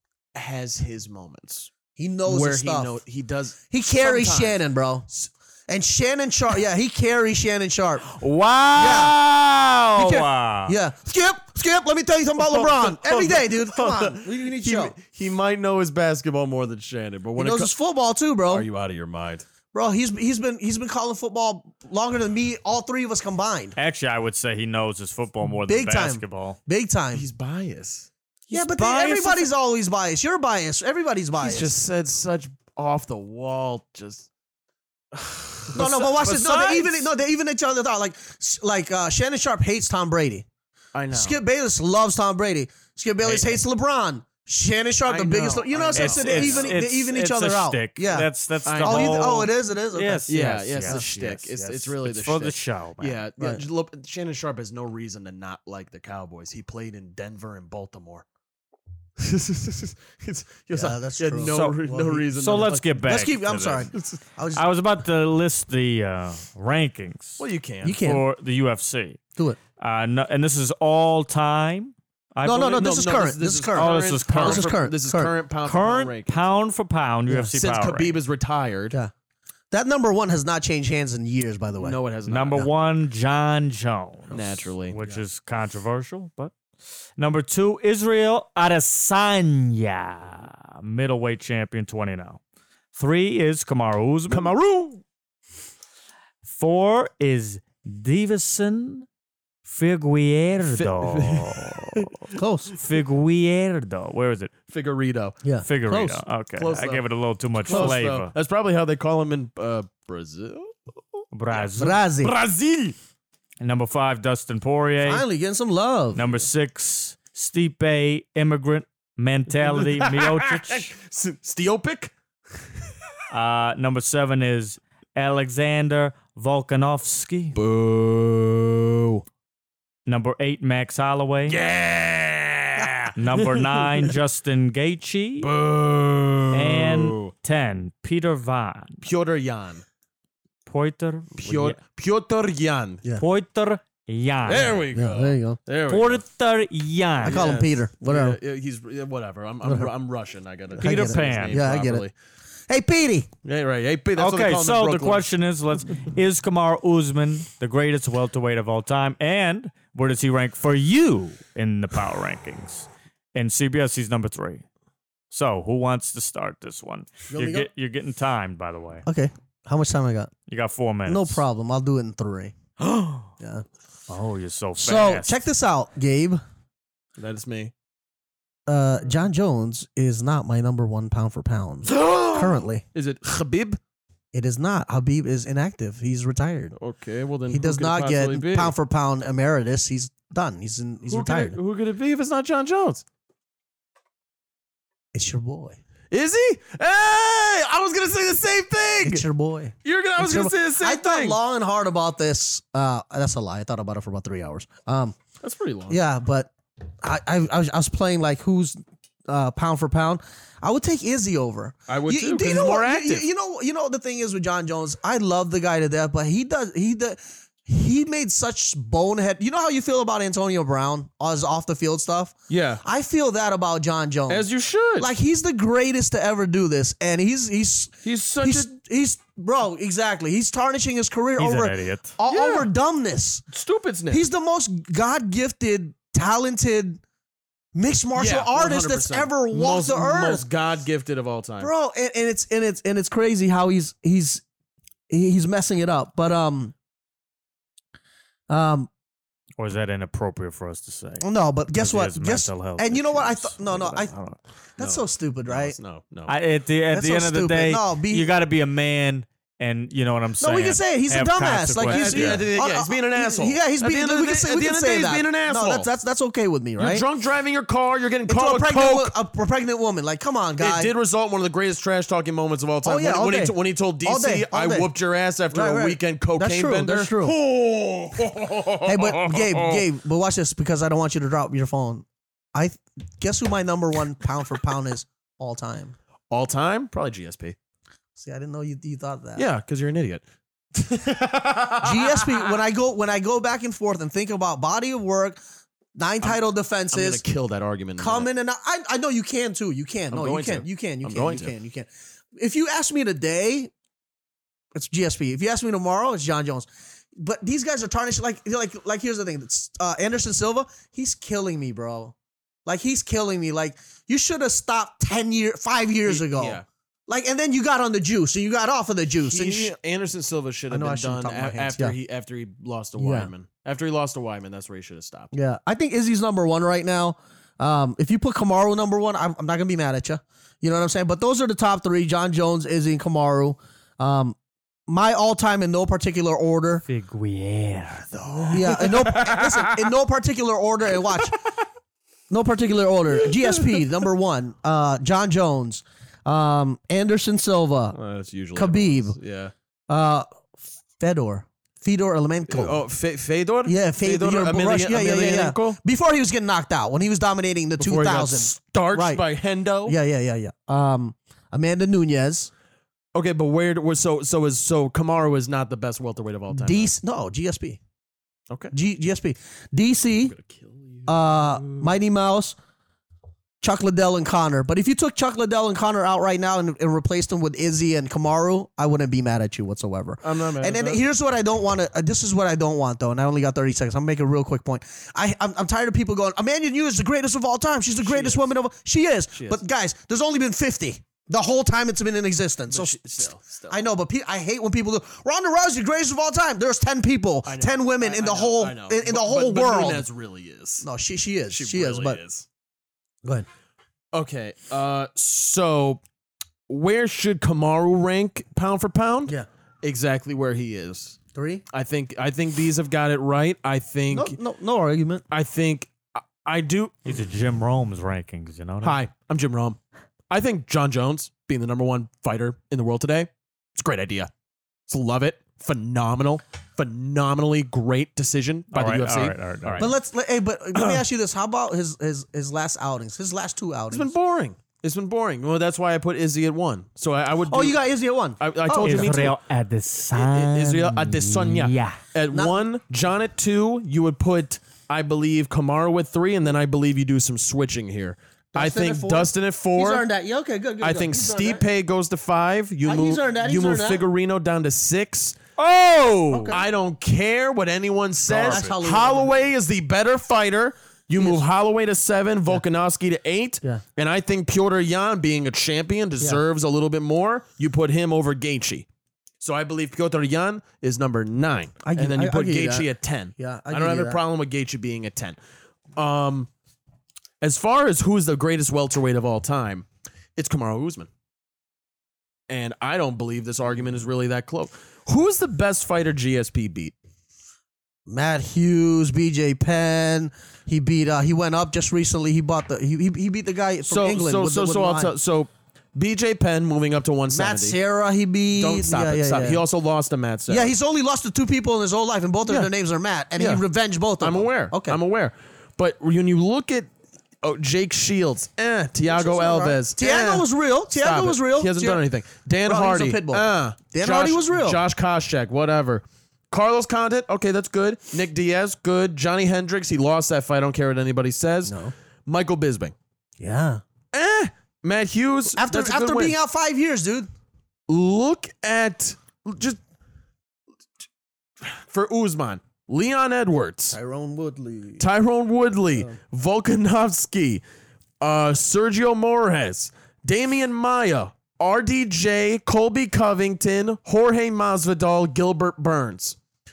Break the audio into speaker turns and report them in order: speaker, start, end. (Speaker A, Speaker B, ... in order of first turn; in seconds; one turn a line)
Speaker A: 0.3-1.7
Speaker B: 1.9-2.9
Speaker A: 2.2-4.6
Speaker B: 3.7-5.1
Speaker B: 5.7-8.0
Speaker C: 8.1-10.8
Speaker B: 8.8-9.2
Speaker B: 9.9-14.9
Speaker A: 12.4-17.7
Speaker B: 17.4-18.7
Speaker A: 18.5-19.4
Speaker B: 19.7-23.8
Speaker C: 23.8-26.6
Speaker B: 25.6-27.2
Speaker A: 27.1-29.5
Speaker B: 28.5-31.7
Speaker A: 31.4-34.3
Speaker A: 35.1-37.1
Speaker B: 35.7-40.5
Speaker A: 40.9-41.4
Speaker B: 41.1-48.3
Speaker A: 43.2-43.6
Speaker A: 45.1-46.8
Speaker C: 46.0-53.2
Speaker A: 48.6-49.3
Speaker B: 48.8-51.1
Speaker A: 50.3-58.2
Speaker A: 59.2-62.9
Speaker B: 60.7-62.2
Speaker C: 61.4-63.9
Speaker B: 63.0-64.6
Speaker A: 63.9-64.2
Speaker C: 64.5-67.4
Speaker A: 67.4-68.0
Speaker B: 67.8-68.2
Speaker C: 68.0-69.2
Speaker C: 69.8-72.8
Speaker B: 72.4-75.3
Speaker A: 72.5-76.4
Speaker C: 73.7-74.7
Speaker C: 75.6-78.2
Speaker A: 77.5-79.0
Speaker B: 79.7-82.0
Speaker A: 81.8-82.7
Speaker C: 82.3-86.5
Speaker A: 84.3-85.0
Speaker C: 87.2-92.4
Speaker C: 92.9-94.5
Speaker A: 94.3-95.0
Speaker C: 96.4-99.1
Speaker C: 99.6-102.1
Speaker A: 100.7-102.1
Speaker B: 102.3-102.7
Speaker C: 102.8-104.5
Speaker A: 104.7-105.4
Speaker B: 105.4-106.2
Speaker C: 105.6-108.3
Speaker A: 106.6-107.0
Speaker A: 107.6-111.7
Speaker B: 107.7-108.0
Speaker C: 111.3-112.0
Speaker B: 111.8-112.3
Speaker A: 112.2-113.0
Speaker C: 113.6-115.2
Speaker B: 115.0-116.2
Speaker C: 116.1-120.9
Speaker A: 119.6-122.1
Speaker C: 123.3-127.6
Speaker A: 127.5-129.2
Speaker C: 130.1-131.6
Speaker A: 131.5-134.1
Speaker C: 133.2-135.5
Speaker A: 135.4-137.3
Speaker C: 136.5-139.0
Speaker A: 139.0-139.8
Speaker C: 140.7-141.8
Speaker A: 141.4-143.0
Speaker C: 143.2-144.8
Speaker A: 144.4-146.2
Speaker B: 144.9-145.6
Speaker C: 145.9-147.5
Speaker B: 147.2-148.4
Speaker A: 147.2-152.1
Speaker B: 149.6-149.9
Speaker B: 150.8-152.1
Speaker C: 150.8-151.6
Speaker B: 152.7-153.3
Speaker A: 153.4-155.2
Speaker C: 154.2-164.6
Speaker C: 165.3-169.0
Speaker B: 167.3-167.7
Speaker B: 169.1-170.3
Speaker C: 170.5-171.4
Speaker B: 171.1-172.5
Speaker C: 172.8-173.3
Speaker B: 173.4-173.6
Speaker C: 174.1-175.4
Speaker B: 174.8-176.4
Speaker A: 177.2-177.7
Speaker B: 178.7-182.8
Speaker A: 181.9-183.8
Speaker B: 184.3-186.7
Speaker A: 186.8-188.7
Speaker B: 187.5-191.6
Speaker A: 191.1-193.0
Speaker B: 195.1-195.8
Speaker A: 196.1-199.2
Speaker B: 199.0-205.2
Speaker A: 199.8-201.4
Speaker A: 205.4-206.0
Speaker B: 205.9-224.4
Speaker A: 211.9-213.2
Speaker A: 222.5-222.8
Speaker A: 224.3-225.1
Speaker B: 225.0-233.4
Speaker A: 228.0-228.7
Speaker C: 231.4-232.1
Speaker A: 232.3-232.7
Speaker A: 233.5-234.2
Speaker B: 234.1-237.0
Speaker B: 237.7-240.4
Speaker A: 238.1-241.7
Speaker B: 241.6-244.4
Speaker B: 245.1-246.7
Speaker B: 248.5-248.9
Speaker C: 249.6-254.4
Speaker B: 251.2-254.1
Speaker B: 254.8-255.8
Speaker A: 254.8-256.3
Speaker C: 256.3-262.4
Speaker B: 256.9-258.3
Speaker B: 260.4-267.1
Speaker A: 261.8-265.9
Speaker A: 266.8-269.1
Speaker B: 268.3-270.9
Speaker A: 270.6-279.8
Speaker B: 272.8-274.9
Speaker B: 275.5-277.4
Speaker B: 278.8-285.9
Speaker A: 286.3-287.6
Speaker B: 288.2-289.5
Speaker A: 289.4-290.2
Speaker A: 290.7-292.5
Speaker B: 291.8-295.4
Speaker B: 295.9-297.2
Speaker A: 296.2-298.3
Speaker B: 298.0-303.7
Speaker A: 300.1-301.5
Speaker B: 304.7-312.1
Speaker B: 312.6-319.7
Speaker A: 316.1-316.6
Speaker A: 319.2-325.3
Speaker B: 320.7-321.9
Speaker B: 323.0-323.3
Speaker B: 325.3-336.8
Speaker C: 336.8-338.5
Speaker A: 338.2-339.9
Speaker B: 338.5-341.4
Speaker B: 342.3-347.9
Speaker A: 343.2-343.8
Speaker A: 347.9-349.5
Speaker B: 348.5-349.1
Speaker B: 349.9-350.3
Speaker B: 351.0-352.8
Speaker A: 352.5-355.8
Speaker B: 353.6-359.2
Speaker A: 357.8-359.9
Speaker B: 359.9-362.5
Speaker A: 363.1-366.9
Speaker B: 366.5-367.8
Speaker A: 368.5-368.7
Speaker B: 368.7-370.3
Speaker A: 370.2-371.9
Speaker B: 371.1-372.6
Speaker B: 373.6-400.1
Speaker A: 380.2-381.0
Speaker A: 388.0-388.4
Speaker A: 389.3-389.6
Speaker A: 392.7-393.8
Speaker A: 397.4-400.9
Speaker B: 400.8-402.2
Speaker A: 401.5-402.4
Speaker A: 404.1-406.0
Speaker A: 406.7-411.2
Speaker B: 411.3-411.6
Speaker A: 411.7-414.4
Speaker B: 414.1-415.2
Speaker A: 415.3-417.0
Speaker C: 417.1-419.0
Speaker A: 418.8-419.8
Speaker A: 420.3-424.3
Speaker A: 424.9-429.9
Speaker C: 428.7-429.9
Speaker B: 429.8-434.1
Speaker A: 430.7-431.0
Speaker A: 433.9-437.8
Speaker B: 437.5-439.3
Speaker A: 438.4-439.4
Speaker C: 438.8-442.0
Speaker A: 440.1-450.1
Speaker B: 442.3-442.6
Speaker B: 448.5-451.6
Speaker A: 450.8-455.5
Speaker B: 452.8-454.0
Speaker C: 455.6-456.5
Speaker B: 456.3-456.6
Speaker A: 456.5-468.9
Speaker B: 458.3-459.4
Speaker A: 469.4-475.4
Speaker B: 471.8-474.2
Speaker A: 475.9-476.5
Speaker A: 477.4-481.1
Speaker A: 482.5-486.9
Speaker B: 488.1-495.1
Speaker A: 493.9-497.8
Speaker B: 497.3-499.6
Speaker A: 498.6-500.7
Speaker B: 500.5-505.0
Speaker A: 503.4-503.6
Speaker A: 504.2-506.9
Speaker A: 507.4-522.9
Speaker B: 509.1-512.0
Speaker B: 512.6-514.8
Speaker B: 521.6-521.9
Speaker B: 523.4-523.8
Speaker A: 524.1-526.4
Speaker B: 525.5-527.3
Speaker A: 527.9-529.8
Speaker A: 531.6-534.0
Speaker B: 533.9-535.1
Speaker A: 535.0-537.6
Speaker A: 538.2-546.4